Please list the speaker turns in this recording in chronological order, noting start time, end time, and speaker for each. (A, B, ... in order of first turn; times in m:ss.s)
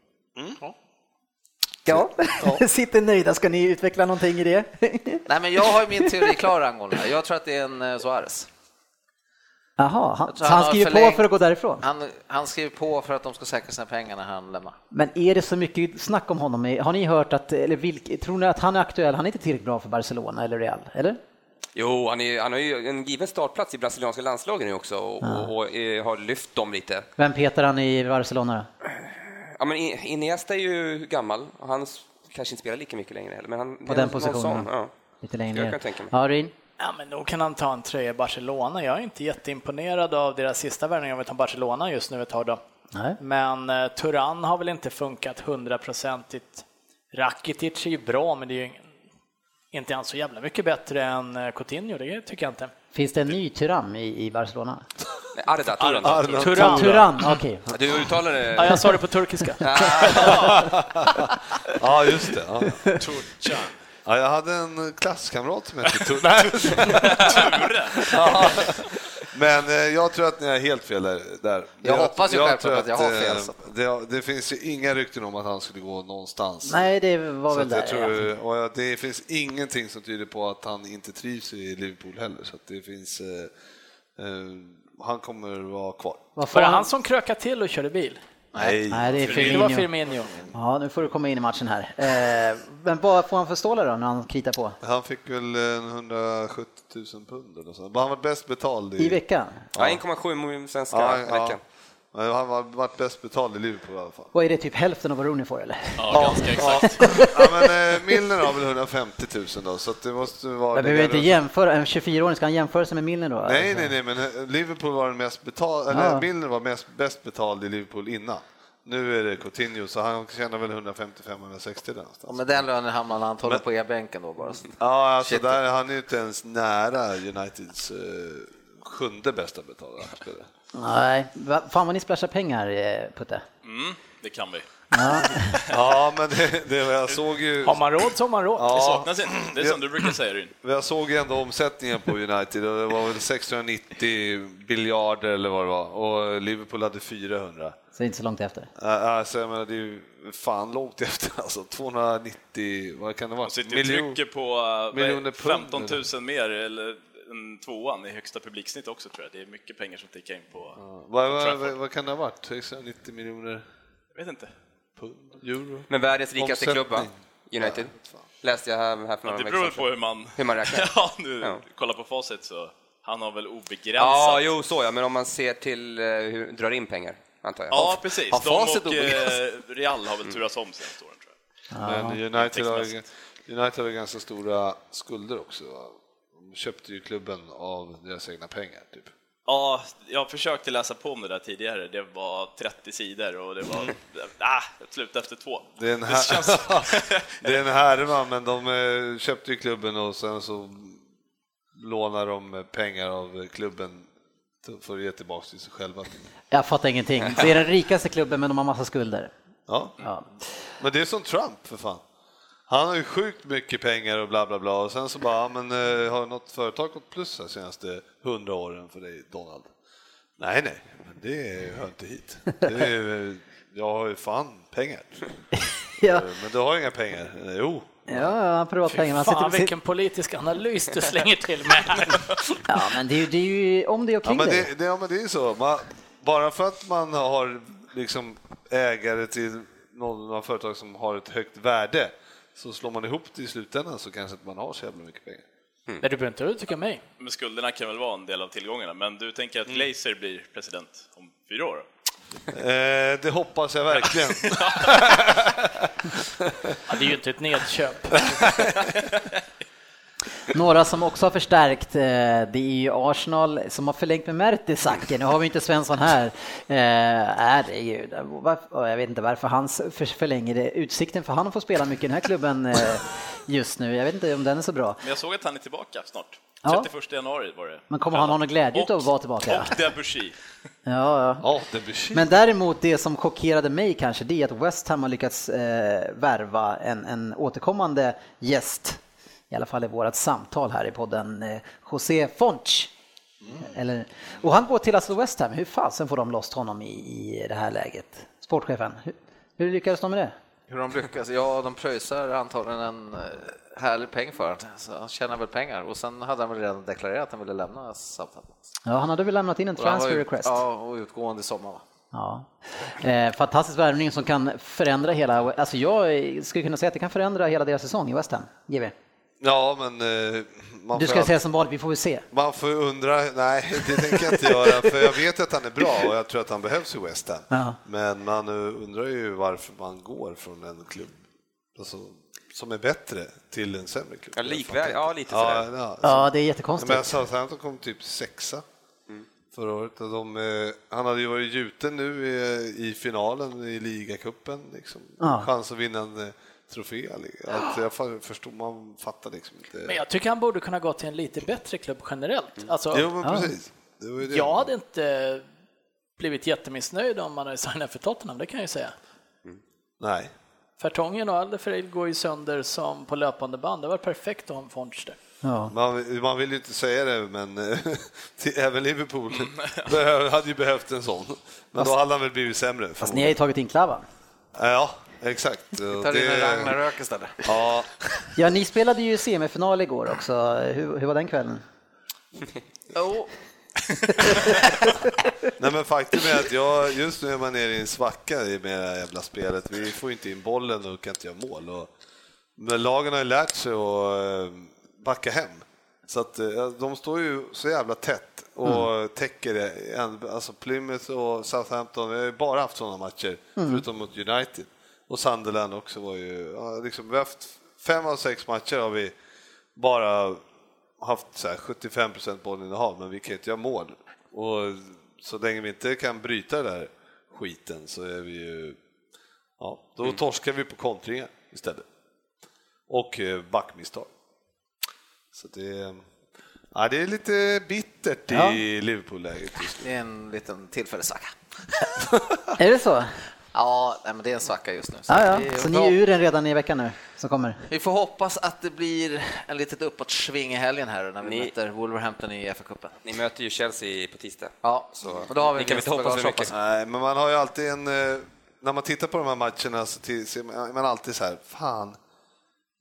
0:01.8-0:05.2 A
0:01.8-0:02.6 B
0:05.3-0:08.5 C
0:09.8-0:11.8 A
0:10.3-0:11.3 C
0:11.8-0:14.8 C
0:14.9-0:21.2 A
0:21.7-0:27.1 D
0:25.2-0:25.5 A
0:27.2-0:28.7 A
0:29.0-0:34.9 D
0:33.9-0:34.7 A
0:35.2-0:36.5 A
0:35.5-0:36.1 D
0:36.8-0:42.6 E
0:43.2-0:48.9 E
0:49.7-0:52.7 E
0:52.9-0:54.8 A
0:55.3-0:56.6 D
0:55.8-0:56.5 F
0:56.0-0:57.1 B
0:56.4-0:57.3 E
0:56.6-0:57.6 A
0:57.7-0:59.0 D
0:58.5-0:59.6 E
0:59.6-1:00.6 D
1:00.1-1:00.5 F
1:00.3-1:01.1 B
1:01.7-1:02.9 B
1:02.9-1:03.8 F
1:04.0-1:16.9 B
1:06.6-1:08.7 F
1:11.8-1:13.6 C
1:16.6-1:18.3 A
1:17.5-1:23.5 B
1:24.2-1:26.3 B
1:26.4-1:26.9 A
1:26.5-1:28.2 E
1:28.5-1:29.4 C
1:28.5-1:29.7 B
1:28.9-1:29.9 A
1:29.3-1:30.3 E
1:30.1-1:30.5 C
1:30.5-1:34.8 A
1:34.8-1:39.2 B
1:39.0-1:39.6 A
1:39.7-1:40.0 B
1:39.8-1:41.6 D
1:40.9-1:41.6 B
1:42.1-1:44.3 B
1:44.3-1:47.6 A
1:46.0-1:47.1 F
1:46.1-1:51.4 B
1:50.7-1:53.9 A
1:53.4-2:02.6 B
1:55.9-1:56.2 A
2:02.3-2:05.6 C
2:04.8-2:10.5 B
2:10.7-2:13.4 A
2:13.6-2:15.8 F
2:14.9-2:15.5 A
2:15.7-2:17.8 B
2:17.6-2:18.8 E
2:18.6-2:27.8 B
2:18.6-2:20.5 F
2:28.0-2:28.7 A
2:28.8-2:34.2 B
2:33.4-2:41.7 F
2:34.9-2:36.0 B
2:40.8-2:43.6 B
2:44.1-2:44.5 F
2:45.0-2:48.2 B
2:45.9-2:50.9 D
2:49.2-2:54.4 F
2:54.0-2:58.0 D
2:57.7-3:01.3 F
2:58.3-2:59.3 C
3:01.7-3:02.2 A
3:01.8-3:09.1 B
3:02.3-3:03.0 F
3:09.4-3:17.5 F
3:15.8-3:21.0 B
3:21.7-3:24.1 B
3:24.6-3:26.1 B
3:26.5-3:29.3 A
3:29.7-3:30.0 B
3:30.0-3:30.3 A
3:30.8-3:32.0 B
3:32.7-3:39.7 B
3:40.4-3:45.2 B
3:45.6-3:46.3 A
3:46.0-3:48.3 B
3:48.1-3:49.7 A
3:48.9-3:52.6 E
3:52.6-3:54.7 A
3:54.2-4:05.4 B
4:06.0-4:07.0 E
4:07.2-4:11.9 F
4:12.5-4:16.8 B
4:14.4-4:14.9 F
4:16.9-4:18.4 E
4:18.2-4:18.8 B
4:20.5-4:35.0 A
4:35.0-4:40.4 F
4:37.9-4:39.8 A
4:40.8-4:41.4 A
4:41.4-4:42.3 B
4:42.1-4:49.0 A
4:49.5-4:52.9 A
4:53.6-5:00.3 A
5:00.7-5:08.6 C
5:08.8-5:10.6 A
5:09.8-5:11.8 C
5:12.1-5:18.9 A
5:19.4-5:21.3 B
5:20.9-5:22.2 A
5:22.3-5:31.2 B
5:23.9-5:24.9 A
5:27.5-5:27.8 A
5:31.8-5:36.3 B
5:34.4-5:35.7 D
5:36.0-5:37.2 A
5:36.8-5:38.6 B
5:39.5-5:50.0 B
5:45.2-5:45.5 A
5:49.8-5:53.1 E
5:52.9-5:54.7 B
5:53.2-5:53.5 A
5:54.3-5:55.4 E
5:56.2-5:58.9 E
6:00.0-6:00.3 B
6:00.8-6:05.2 E
6:05.4-6:05.7 A
6:05.7-6:13.4 B
6:09.4-6:09.8 F
6:13.0-6:14.0 A
6:14.5-6:16.8 B
6:16.0-6:17.5 C
6:17.4-6:17.9 B
6:18.4-6:21.6 A
6:22.9-6:23.3 C
6:24.2-6:24.5 A
6:25.6-6:31.9 B
6:32.6-6:49.1 B
6:43.6-6:43.8 A
6:49.8-6:50.4 B
6:51.0-6:58.8 B
6:59.6-7:01.8 B
7:02.9-7:04.1 B
7:05.3-7:06.0 B
7:06.7-7:09.9 B
7:08.3-7:08.6 A
7:09.8-7:11.4 C
7:12.6-7:13.1 A
7:13.5-7:16.0 C
7:15.1-7:17.6 A
7:17.7-7:23.0 C
7:21.2-7:21.5 D
7:23.0-7:26.5 D
7:24.6-7:26.5 C
7:26.5-7:32.0 B